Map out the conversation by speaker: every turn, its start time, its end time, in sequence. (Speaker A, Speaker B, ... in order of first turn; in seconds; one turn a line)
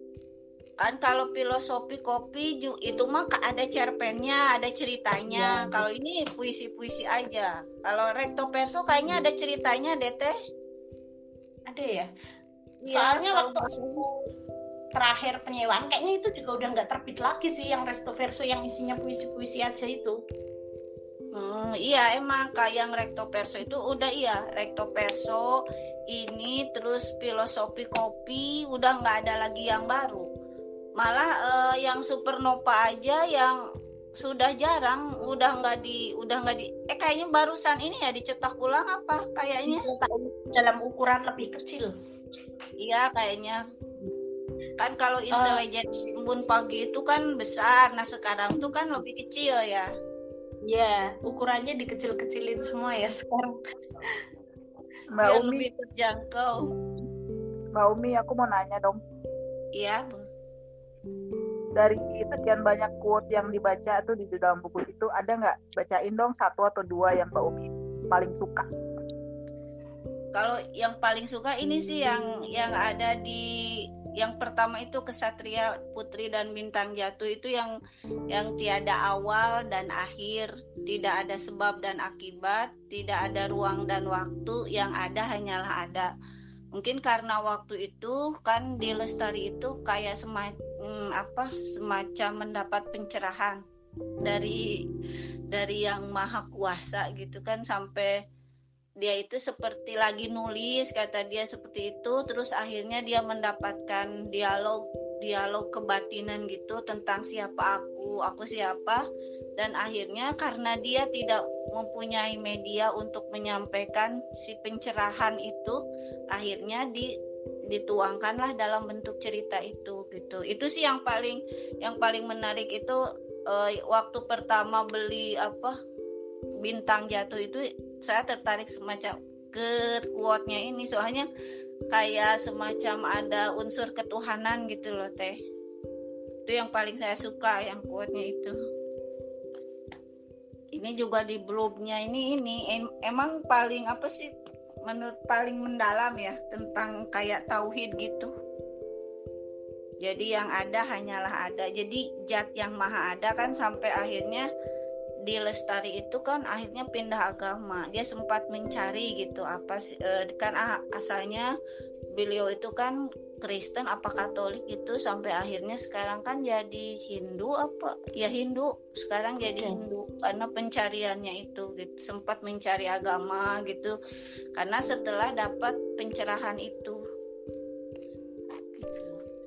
Speaker A: 0.8-10.3
Speaker B: 5.3-5.8
Speaker B: 11.7-12.1
Speaker A: 12.8-14.0
Speaker B: 12.9-14.2
Speaker B: 14.9-20.2
Speaker A: 21.3-25.6
Speaker A: 26.1-30.3
Speaker A: 31.0-33.6
Speaker A: 34.2-39.9
Speaker B: 39.7-41.9
Speaker A: 42.8-43.6
Speaker A: 44.8-49.9
Speaker B: 45.3-45.6
Speaker B: 50.6-53.5
Speaker C: 55.1-55.7
Speaker A: 55.2-56.7
Speaker C: 57.8-59.0
Speaker A: 59.8-60.2
Speaker C: 61.8-68.7
Speaker A: 70.3-73.4
Speaker A: 74.2-77.7
Speaker A: 78.3-86.1
Speaker A: 86.7-93.6
Speaker A: 94.2-94.6
Speaker A: 95.5-98.1
Speaker A: 99.0-109.0
Speaker A: 109.6-115.8
Speaker A: 116.3-117.1
Speaker A: 117.7-123.0
Speaker A: 123.5-125.8
Speaker A: 126.6-131.3
Speaker A: 131.9-135.3
Speaker A: 136.5-138.6
Speaker A: 140.8-144.3
Speaker A: 144.9-148.3
Speaker A: 150.0-154.5
Speaker A: 155.3-161.5
Speaker A: 162.2-173.9
Speaker B: 169.6-169.8
Speaker A: 174.6-177.0